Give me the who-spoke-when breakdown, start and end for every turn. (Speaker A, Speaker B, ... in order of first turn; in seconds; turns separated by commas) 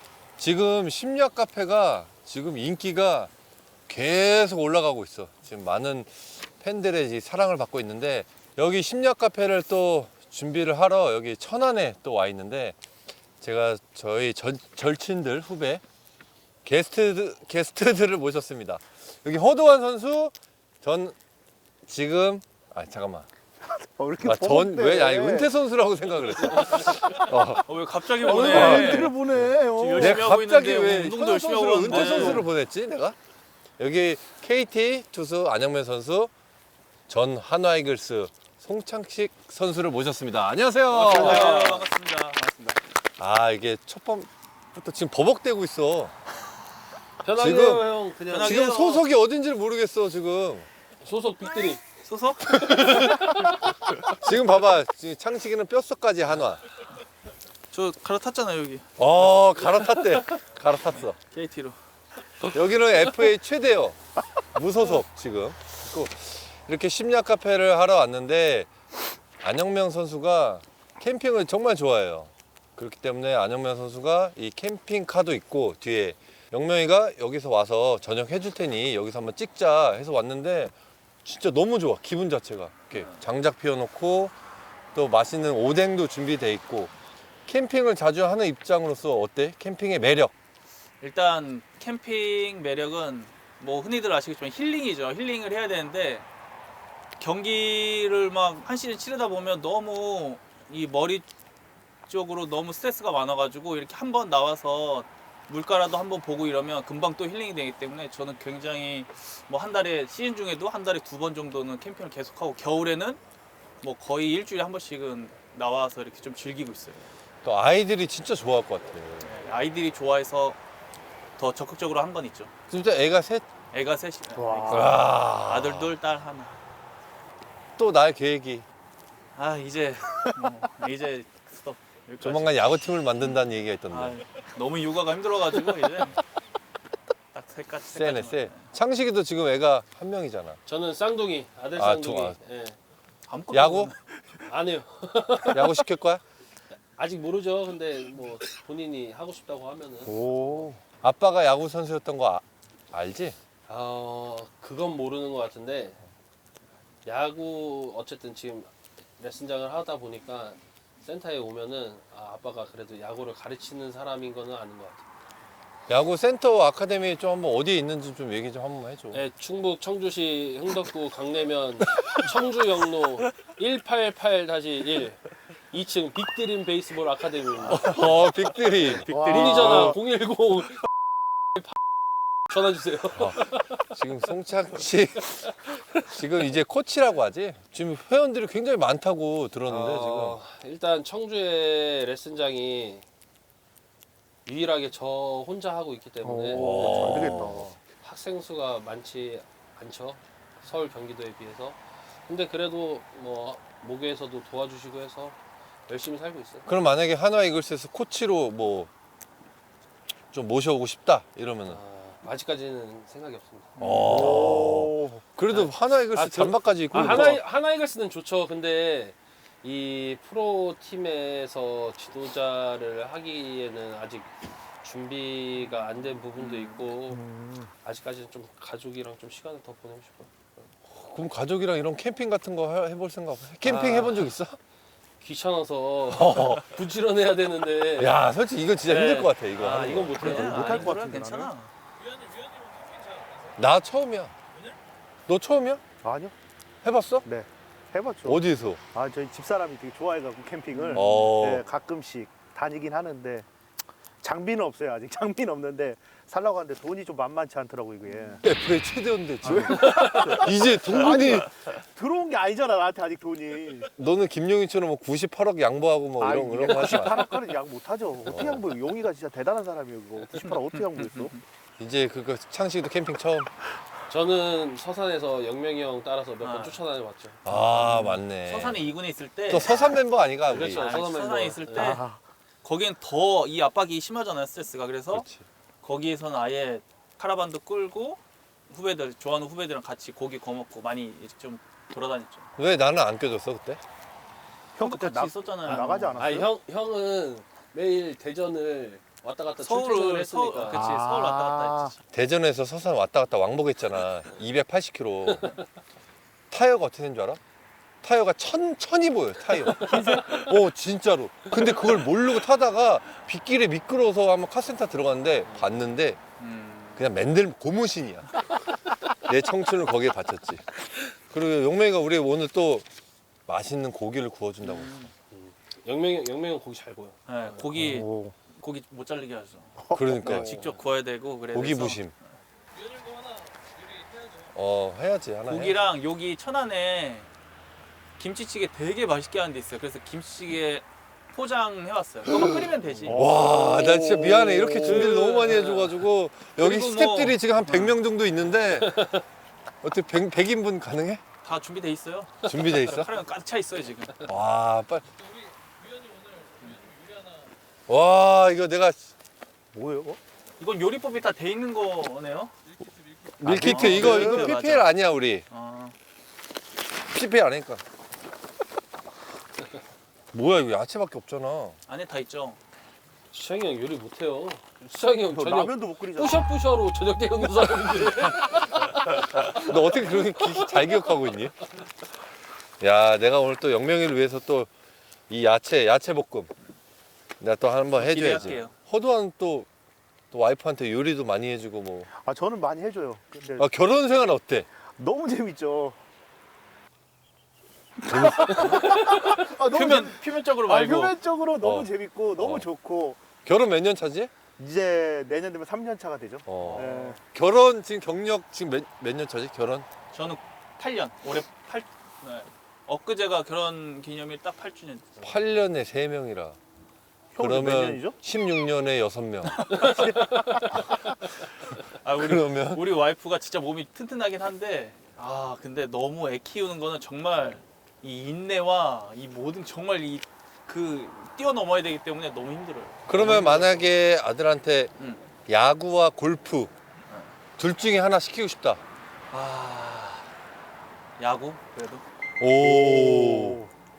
Speaker A: 0.4-3.3, Speaker A: 3.9-12.8, Speaker A: 13.4-15.8, Speaker A: 16.6-21.2, Speaker A: 21.8-23.3, Speaker B: 23.7-25.5, Speaker A: 24.2-27.7, Speaker C: 27.1-29.2, Speaker B: 28.2-30.2, Speaker A: 28.2-29.1, Speaker C: 29.7-32.5, Speaker A: 29.9-33.2, Speaker B: 31.9-32.5, Speaker A: 33.8-36.3, Speaker A: 37.1-41.8, Speaker C: 40.9-42.8, Speaker D: 41.1-41.8, Speaker A: 43.2-46.1, Speaker D: 47.2-48.6, Speaker A: 47.3-50.7, Speaker C: 48.3-49.0, Speaker D: 51.0-51.8, Speaker C: 51.9-54.0, Speaker D: 52.7-54.0, Speaker A: 54.0-56.7, Speaker C: 57.7-58.9, Speaker A: 59.0-61.2, Speaker C: 61.2-61.8, Speaker A: 62.5-64.0, Speaker A: 64.5-68.7, Speaker A: 69.4-84.3, Speaker C: 82.9-83.2, Speaker A: 84.9-86.9, Speaker A: 87.5-90.3, Speaker C: 91.0-96.3, Speaker C: 97.2-101.3, Speaker C: 102.1-113.2, Speaker C: 113.8-117.0, Speaker A: 117.4-119.3, Speaker C: 119.2-120.6, Speaker C: 121.4-122.5, Speaker A: 122.7-123.5, Speaker C: 123.7-126.6, Speaker B: 124.3-125.0, Speaker A: 124.7-125.9, Speaker A: 127.8-128.7, Speaker C: 129.3-132.6, Speaker A: 132.2-134.2, Speaker C: 133.2-136.2, Speaker C: 137.3-138.7, Speaker A: 137.9-140.6, Speaker D: 140.7-142.8, Speaker A: 141.8-142.4, Speaker C: 143.3-144.0, Speaker A: 143.5-143.9, Speaker D: 144.5-145.8, Speaker A: 145.5-146.2, Speaker D: 146.9-150.1, Speaker B: 150.0-150.8, Speaker A: 151.0-153.3, Speaker D: 153.7-156.0, Speaker D: 157.0-165.0, Speaker A: 165.9-169.2, Speaker D: 169.1-178.0, Speaker A: 177.7-179.1, Speaker C: 178.9-179.9, Speaker B: 179.1-180.0, Speaker D: 179.1-180.8, Speaker D: 182.5-183.8, Speaker A: 183.1-185.5, Speaker D: 185.8-186.1, Speaker A: 186.0-190.4, Speaker D: 189.7-193.0, Speaker D: 194.4-205.4, Speaker B: 196.2-197.8, Speaker A: 196.5-197.7, Speaker D: 205.9-206.7, Speaker A: 206.7-208.9, Speaker A: 210.3-211.8, Speaker D: 211.6-214.6, Speaker C: 213.8-214.3, Speaker A: 213.8-217.4, Speaker B: 214.0-215.2, Speaker D: 215.5-224.3, Speaker D: 224.8-227.3, Speaker C: 225.6-226.9, Speaker B: 227.2-227.7, Speaker D: 227.8-230.7, Speaker A: 230.9-234.6, Speaker D: 233.6-234.3, Speaker D: 235.2-238.2, Speaker A: 236.1-236.7, Speaker A: 237.9-240.4, Speaker D: 238.8-241.0, Speaker C: 238.9-241.7, Speaker B: 240.3-241.5, Speaker A: 243.6-244.3, Speaker A: 245.3-245.8, Speaker B: 246.0-246.3, Speaker A: 246.8-247.2, Speaker B: 247.2-248.4, Speaker A: 248.2-248.8, Speaker B: 248.9-253.5, Speaker C: 250.8-251.1, Speaker A: 250.9-251.6, Speaker B: 254.2-258.4, Speaker A: 258.4-261.5, Speaker B: 259.4-263.9, Speaker D: 259.8-260.4, Speaker A: 263.9-267.3, Speaker B: 266.2-271.4, Speaker A: 268.3-268.6, Speaker C: 270.3-271.4, Speaker A: 271.8-273.5, Speaker D: 274.1-277.7, Speaker C: 276.4-276.8, Speaker A: 277.4-278.9, Speaker C: 277.9-279.8, Speaker A: 279.5-281.0, Speaker D: 280.5-282.0, Speaker C: 280.5-282.0, Speaker B: 281.7-282.2, Speaker C: 282.6-285.3, Speaker A: 285.1-285.4, Speaker C: 285.8-292.5, Speaker A: 292.6-293.8, Speaker B: 294.8-296.5, Speaker C: 294.8-296.4, Speaker D: 295.6-300.8, Speaker C: 299.6-302.0, Speaker B: 300.7-301.9, Speaker A: 302.1-305.5, Speaker A: 306.5-307.4, Speaker A: 308.0-316.2, Speaker C: 309.7-310.3, Speaker D: 309.9-310.4, Speaker D: 315.5-315.8, Speaker C: 316.4-317.1, Speaker A: 317.0-318.3, Speaker A: 319.1-322.9, Speaker A: 323.5-325.0, Speaker C: 324.7-325.1, Speaker D: 325.3-327.8, Speaker C: 327.3-332.2, Speaker B: 327.8-328.4, Speaker B: 329.8-330.7, Speaker A: 329.9-330.6, Speaker A: 331.5-332.1, Speaker A: 334.5-335.9, Speaker C: 335.5-337.3, Speaker C: 338.2-343.2, Speaker B: 343.1-345.1, Speaker A: 343.1-349.1, Speaker D: 344.8-346.0, Speaker C: 344.9-345.7, Speaker C: 346.6-348.0, Speaker D: 348.9-349.2, Speaker A: 349.8-351.2, Speaker C: 351.4-354.2, Speaker A: 352.4-353.1, Speaker A: 354.2-355.1, Speaker A: 357.9-359.1, Speaker B: 359.7-360.2, Speaker C: 360.6-362.5, Speaker A: 363.4-365.5, Speaker C: 363.4-364.9, Speaker B: 363.8-364.5, Speaker C: 365.5-366.0, Speaker A: 367.1-367.8, Speaker A: 370.3-371.8, Speaker C: 371.9-372.6, Speaker D: 373.3-379.1, Speaker B: 375.2-376.5, Speaker A: 379.4-381.6, Speaker D: 379.7-381.0, Speaker A: 382.8-384.7, Speaker A: 385.3-386.5, Speaker A: 387.4-389.7, Speaker C: 388.0-388.7, Speaker A: 390.3-392.1, Speaker B: 392.1-393.7, Speaker A: 393.6-394.7, Speaker B: 394.9-396.0, Speaker B: 398.0-403.2, Speaker A: 398.1-398.6, Speaker C: 398.5-401.2, Speaker A: 401.6-402.7, Speaker A: 403.4-404.3, Speaker B: 404.6-407.2, Speaker A: 406.5-409.9, Speaker C: 406.6-406.9, Speaker C: 410.1-415.1, Speaker A: 415.2-416.6, Speaker D: 415.3-415.6, Speaker B: 417.3-418.2, Speaker A: 417.4-419.9, Speaker C: 419.5-420.5, Speaker B: 419.8-420.8, Speaker D: 420.2-420.9, Speaker C: 421.2-434.0, Speaker A: 422.2-422.8, Speaker A: 433.1-434.9, Speaker C: 435.0-435.2, Speaker A: 435.5-436.7, Speaker C: 437.1-437.3, Speaker A: 437.6-438.8, Speaker C: 439.3-440.3, Speaker C: 441.2-442.0, Speaker A: 442.4-443.6, Speaker B: 442.6-443.7